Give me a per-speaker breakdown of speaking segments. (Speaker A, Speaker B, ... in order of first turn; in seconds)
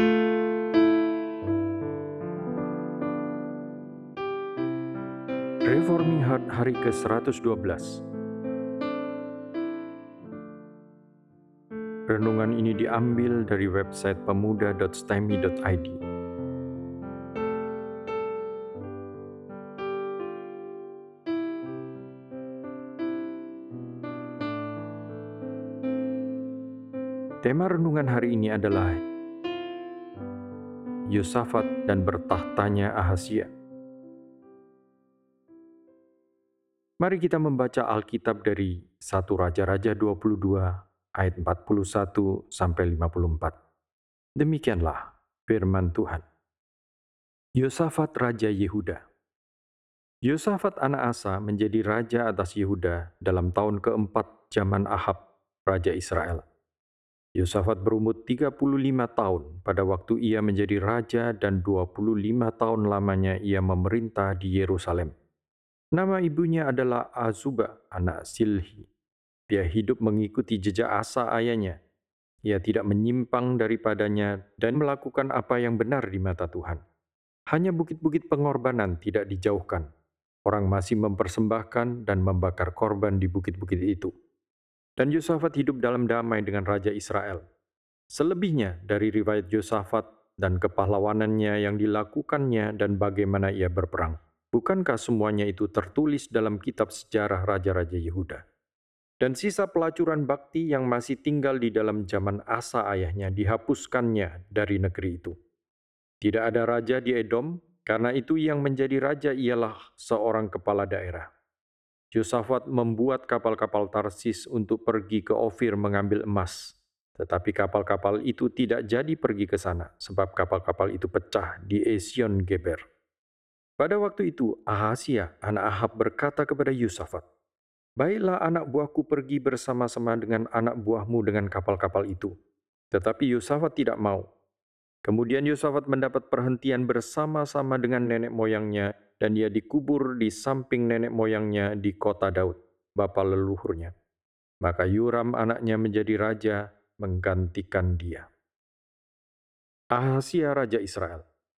Speaker A: 5.7-8.0, 12.1-16.0, 27.4-29.0, 31.1-33.5, 37.0-43.5, 44.4-46.2, 47.6-49.0, 50.3-56.4, 57.4-65.1, 66.0-68.9, 69.5-71.8, 72.5-76.8, 77.5-79.9, 80.5-84.1, 85.0-87.4, 88.1-98.4, 99.2-105.3, 106.2-111.3, 112.1-122.8, 123.8-127.2, 128.0-132.3, 132.9-134.2, 135.1-143.9, 144.6-148.3, 149.9-151.2